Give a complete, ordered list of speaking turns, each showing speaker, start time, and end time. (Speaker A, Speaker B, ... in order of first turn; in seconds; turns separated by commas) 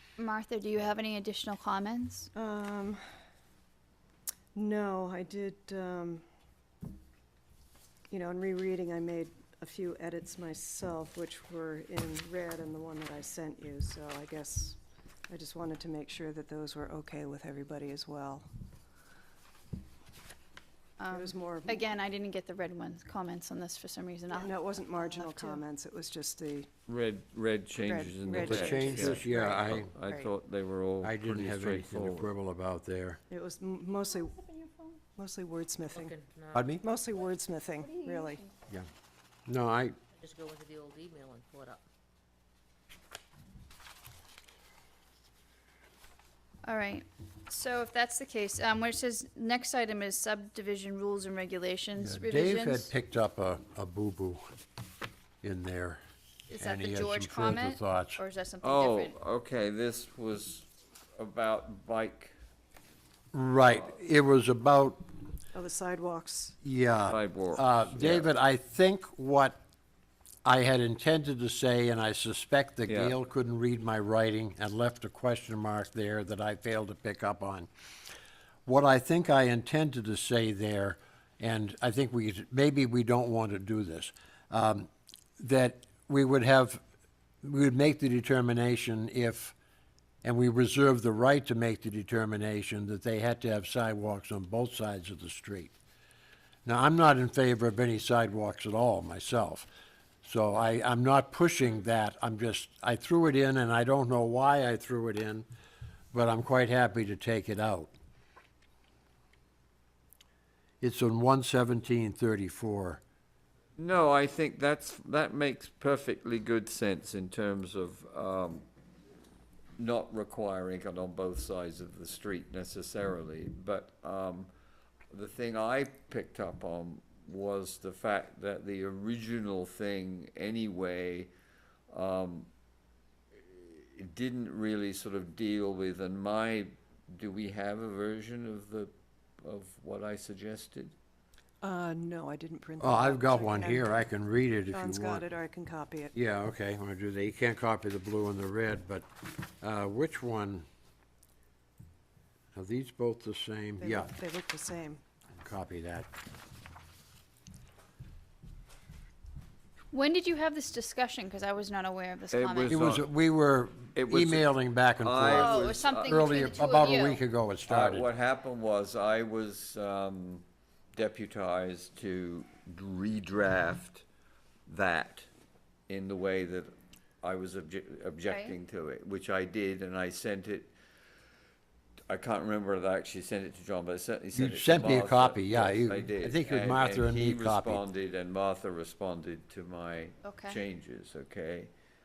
Speaker A: 0.2-2.3, Speaker B: 2.4-3.0, Speaker B: 4.5-6.2, Speaker B: 8.1-18.5, Speaker A: 21.0-25.6, Speaker B: 21.1-21.8, Speaker B: 24.3-26.7, Speaker C: 26.9-32.3, Speaker B: 27.8-30.3, Speaker D: 28.4-29.9, Speaker D: 31.0-33.2, Speaker B: 33.3-34.5, Speaker B: 35.2-36.1, Speaker E: 36.0-36.8, Speaker D: 36.5-36.8, Speaker B: 36.8-38.4, Speaker A: 38.0-38.4, Speaker D: 39.5-40.0, Speaker E: 40.2-41.8, Speaker A: 46.6-52.9, Speaker D: 52.0-54.4, Speaker D: 55.4-56.0, Speaker A: 56.5-59.2, Speaker D: 56.6-58.2, Speaker C: 58.6-62.4, Speaker D: 63.3-65.0, Speaker B: 65.5-66.6, Speaker D: 66.6-69.6, Speaker C: 67.1-68.3, Speaker D: 70.5-77.7, Speaker C: 72.9-73.2, Speaker D: 78.7-86.8, Speaker D: 87.4-89.5, Speaker D: 90.2-95.7, Speaker D: 96.7-99.7, Speaker D: 100.2-105.5, Speaker D: 106.1-107.9, Speaker D: 110.8-113.0, Speaker C: 113.8-118.7, Speaker C: 119.8-124.5, Speaker C: 125.1-131.3, Speaker C: 131.9-132.5, Speaker C: 133.4-140.9, Speaker B: 141.6-144.1, Speaker D: 142.8-145.2, Speaker B: 144.7-146.2, Speaker D: 146.2-150.7, Speaker D: 152.6-154.1, Speaker B: 153.8-155.0, Speaker D: 155.4-156.1, Speaker A: 159.9-162.9, Speaker C: 162.3-163.1, Speaker D: 162.7-168.1, Speaker C: 163.9-166.7, Speaker A: 165.3-167.2, Speaker C: 167.7-174.1, Speaker C: 174.7-175.3, Speaker C: 175.9-176.7, Speaker C: 177.2-180.7, Speaker A: 178.3-178.6, Speaker C: 182.1-191.7, Speaker D: 184.3-187.8, Speaker A: 190.2-190.6